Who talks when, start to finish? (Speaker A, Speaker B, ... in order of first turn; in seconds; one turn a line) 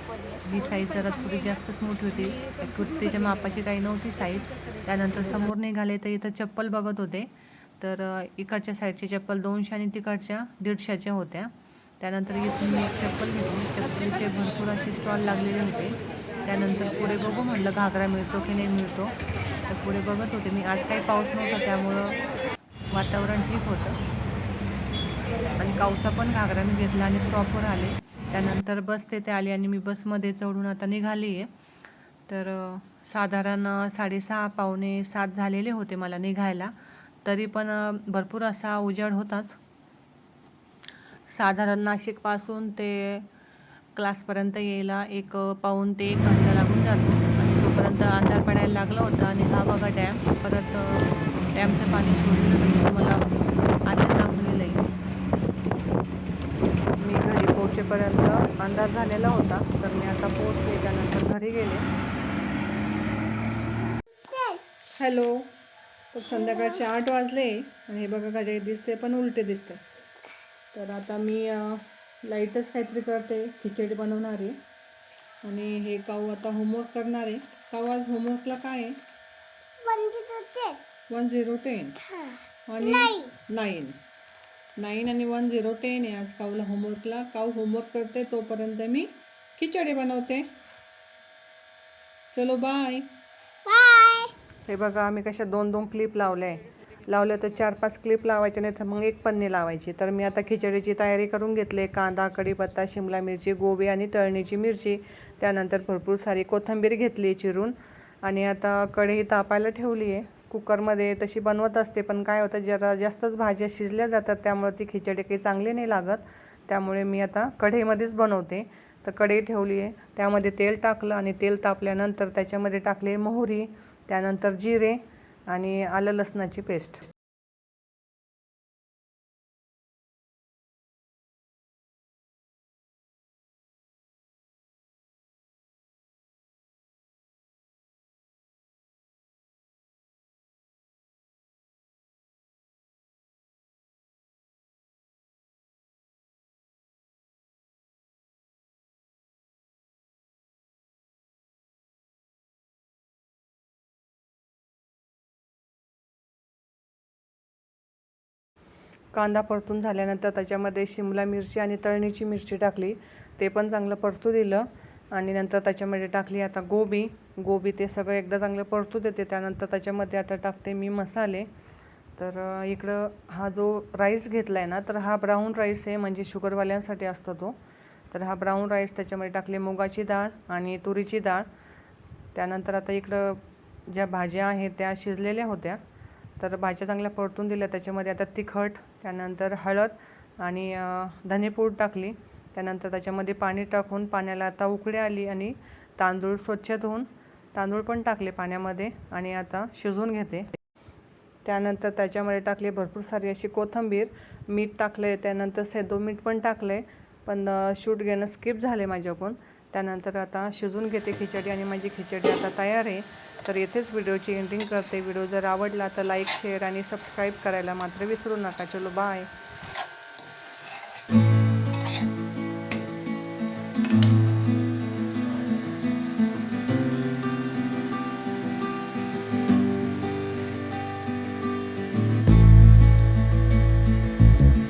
Speaker A: 0.4-19.1
Speaker A: 19.7-22.2
Speaker A: 22.9-24.0
Speaker A: 25.6-31.5
Speaker A: 32.3-39.6
Speaker A: 41.3-43.3
Speaker A: 44.0-53.3
Speaker A: 53.9-54.8
Speaker A: 57.0-61.9
Speaker B: 64.2-64.6
Speaker A: 64.9-65.5
Speaker A: 66.1-69.8
Speaker A: 70.7-74.6
Speaker A: 75.4-79.0
Speaker B: 79.8-80.8
Speaker A: 81.1-82.1
Speaker B: 82.1-83.3
Speaker A: 82.7-84.0
Speaker A: 84.8-90.5
Speaker A: 92.3-93.1
Speaker B: 93.7-94.3
Speaker A: 94.7-127.1
Speaker A: 159.1-171.5
Speaker A: 172.2-177.6
Speaker A: 178.1-181.5
Speaker A: 182.3-185.8
Speaker A: 186.4-200.5
Speaker A: 201.4-219.3